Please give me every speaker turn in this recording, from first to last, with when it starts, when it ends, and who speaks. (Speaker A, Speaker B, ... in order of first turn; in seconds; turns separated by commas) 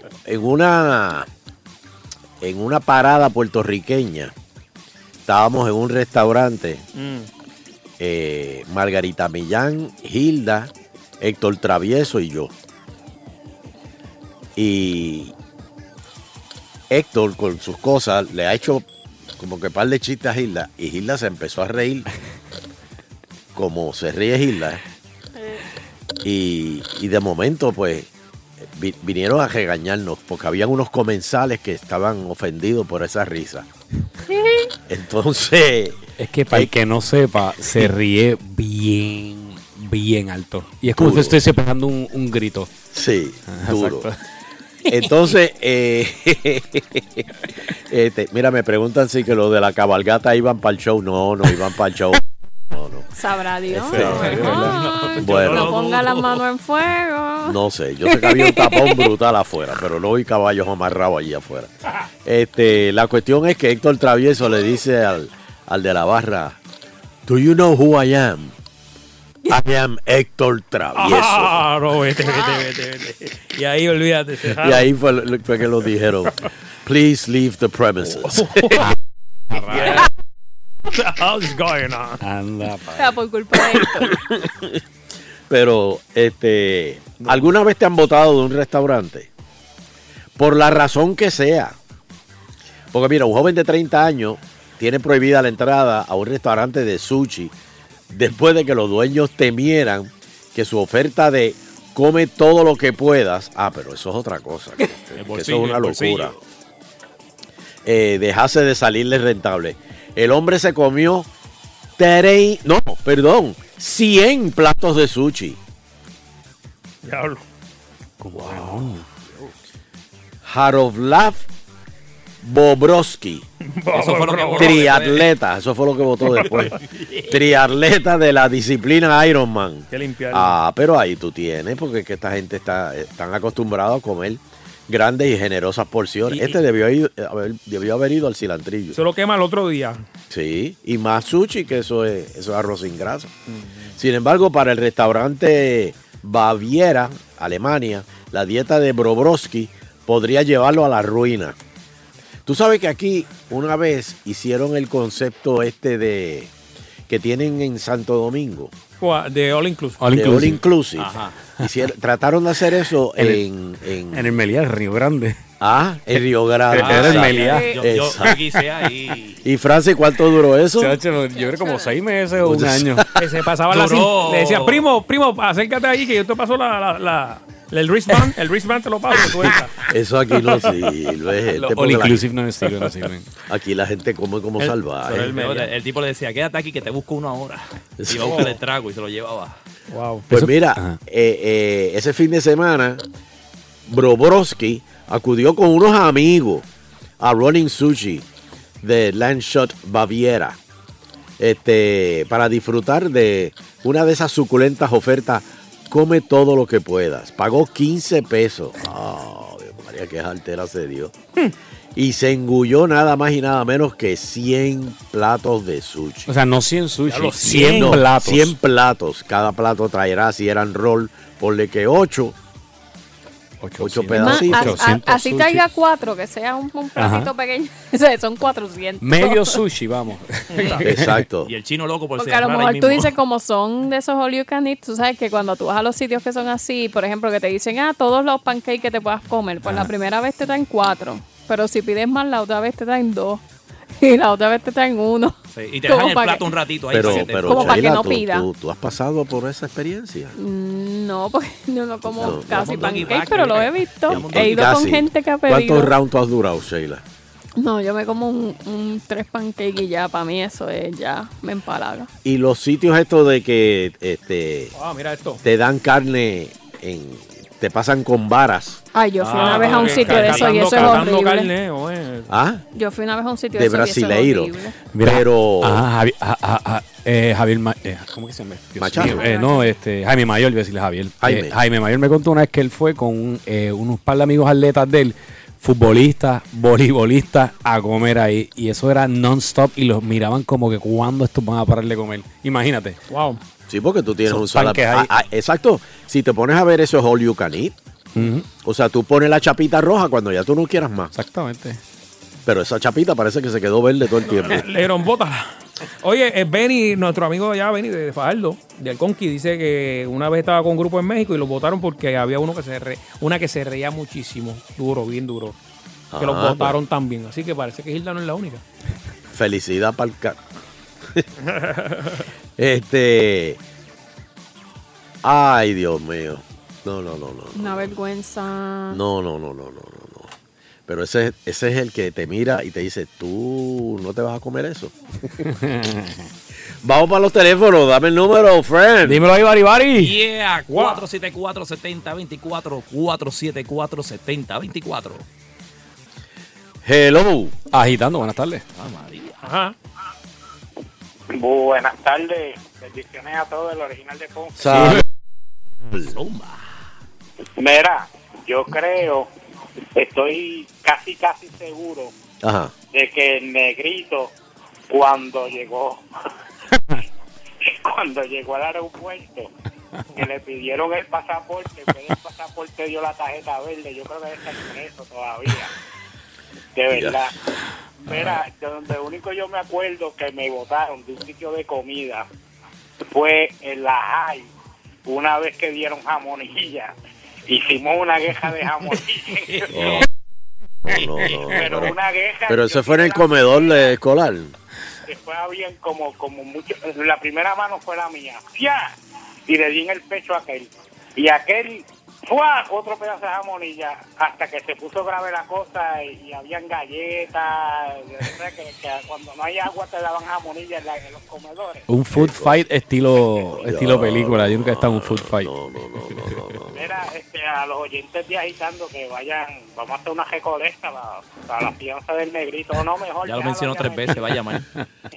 Speaker A: 0.2-1.3, Speaker A: 2.4-4.3, Speaker A: 5.2-6.8, Speaker B: 6.9-7.3, Speaker A: 8.0-12.5, Speaker A: 14.6-15.3, Speaker A: 16.9-22.1, Speaker A: 23.5-24.8, Speaker C: 25.4-25.6, Speaker A: 26.2-28.1, Speaker A: 28.6-33.7, Speaker C: 34.3-34.7, Speaker A: 34.9-36.7, Speaker D: 36.2-42.8, Speaker A: 41.0-41.4, Speaker A: 42.9-44.1, Speaker D: 43.5-44.1, Speaker A: 44.9-53.1, Speaker C: 53.1-59.1, Speaker A: 53.7-55.7, Speaker B: 54.2-55.0, Speaker E: 54.7-56.4, Speaker A: 57.4-66.6, Speaker A: 67.3-68.5, Speaker A: 69.5-71.6, Speaker B: 70.9-74.8, Speaker A: 74.5-78.7, Speaker B: 78.0-78.9, Speaker D: 79.5-80.0, Speaker B: 79.5-80.1, Speaker B: 80.9-82.2, Speaker D: 82.2-83.2, Speaker C: 82.9-84.1, Speaker A: 83.8-84.8, Speaker A: 85.5-89.3, Speaker A: 90.4-91.7, Speaker A: 92.9-97.5, Speaker A: 98.1-106.3, Speaker E: 105.2-106.4, Speaker A: 107.8-111.3, Speaker A: 112.0-115.6, Speaker B: 117.0-117.4, Speaker D: 118.2-119.5, Speaker A: 118.3-118.9, Speaker A: 120.4-121.4, Speaker A: 122.4-123.5, Speaker B: 123.6-124.9, Speaker E: 123.9-125.3, Speaker A: 124.5-139.0, Speaker B: 126.3-126.7, Speaker B: 129.9-130.6, Speaker B: 136.3-136.6, Speaker B: 138.9-140.0, Speaker A: 140.3-143.3, Speaker B: 143.5-143.9, Speaker A: 143.9-151.6, Speaker A: 152.4-156.5, Speaker A: 157.1-158.7, Speaker B: 159.0-160.0, Speaker D: 160.0-160.6, Speaker A: 160.1-164.3, Speaker E: 161.0-161.3, Speaker D: 163.2-163.4, Speaker D: 164.1-165.4, Speaker A: 165.6-168.4, Speaker D: 166.7-168.3, Speaker E: 166.7-169.4, Speaker C: 167.3-167.8, Speaker A: 169.4-171.0, Speaker D: 170.8-173.1, Speaker C: 171.2-172.1, Speaker A: 172.3-173.1, Speaker B: 173.2-179.8, Speaker E: 173.7-174.8, Speaker A: 179.8-182.2, Speaker B: 180.4-180.7, Speaker D: 181.5-183.3, Speaker A: 183.5-185.4, Speaker E: 184.7-189.5, Speaker B: 185.1-185.7, Speaker A: 188.0-188.5, Speaker B: 189.9-190.3, Speaker D: 190.3-191.0, Speaker A: 190.3-193.0, Speaker A: 193.9-196.6, Speaker A: 197.2-198.2, Speaker A: 198.8-200.6, Speaker A: 201.4-211.1, Speaker A: 211.9-216.3, Speaker D: 216.3-218.5, Speaker B: 217.1-218.0, Speaker A: 217.4-222.3, Speaker D: 223.6-225.6, Speaker A: 223.8-224.8, Speaker C: 224.1-229.6, Speaker D: 227.0-227.3, Speaker D: 229.0-231.2, Speaker E: 230.6-230.9, Speaker A: 230.8-231.5, Speaker E: 231.4-233.1, Speaker C: 232.2-248.5, Speaker E: 245.5-247.9, Speaker A: 246.9-250.3, Speaker C: 250.3-255.9, Speaker A: 252.1-253.0, Speaker E: 252.2-254.8, Speaker A: 254.1-257.0, Speaker C: 257.6-262.1, Speaker A: 262.2-264.7, Speaker B: 264.7-265.4, Speaker A: 265.4-268.8, Speaker C: 268.9-271.5, Speaker B: 269.2-272.3, Speaker E: 269.4-271.0, Speaker A: 272.3-272.6, Speaker C: 272.7-274.8, Speaker A: 273.5-275.8, Speaker D: 274.9-293.0, Speaker A: 278.8-279.2, Speaker C: 279.0-279.7, Speaker A: 281.2-281.6, Speaker B: 293.1-293.4, Speaker A: 293.7-297.7, Speaker D: 294.3-295.1, Speaker D: 298.1-298.5, Speaker A: 298.6-301.1, Speaker D: 301.1-301.8, Speaker A: 302.4-304.7, Speaker B: 304.2-315.6, Speaker A: 316.1-316.8, Speaker B: 316.2-318.6, Speaker A: 319.3-320.4, Speaker B: 321.4-322.2, Speaker A: 322.6-323.6, Speaker A: 325.2-327.9, Speaker C: 327.5-329.0, Speaker A: 328.9-330.3, Speaker A: 330.9-335.3, Speaker D: 335.5-336.2, Speaker A: 336.8-339.2, Speaker D: 339.0-340.1, Speaker E: 339.9-345.2, Speaker B: 340.7-341.0, Speaker A: 346.8-347.6, Speaker D: 347.7-348.6, Speaker E: 348.8-349.4, Speaker B: 349.4-349.7, Speaker F: 351.3-354.6, Speaker A: 354.6-355.0, Speaker D: 354.7-355.0, Speaker A: 355.8-356.1, Speaker E: 356.1-356.6, Speaker F: 357.6-359.3, Speaker F: 359.9-362.1, Speaker A: 362.4-362.7, Speaker F: 362.9-364.3, Speaker F: 364.9-366.0, Speaker F: 367.6-369.5, Speaker F: 370.1-375.7, Speaker F: 376.7-377.4, Speaker A: 376.9-377.2, Speaker F: 378.0-382.2, Speaker F: 383.1-384.5, Speaker F: 385.1-386.9, Speaker F: 387.5-389.9, Speaker E: 389.5-390.0, Speaker A: 389.7-390.1, Speaker A: 390.9-394.5, Speaker E: 390.9-391.7, Speaker F: 391.5-393.9, Speaker F: 395.1-398.9, Speaker F: 399.5-411.8, Speaker D: 411.9-415.5, Speaker A: 412.1-412.6, Speaker A: 413.5-417.0, Speaker F: 416.7-424.2, Speaker E: 423.2-424.6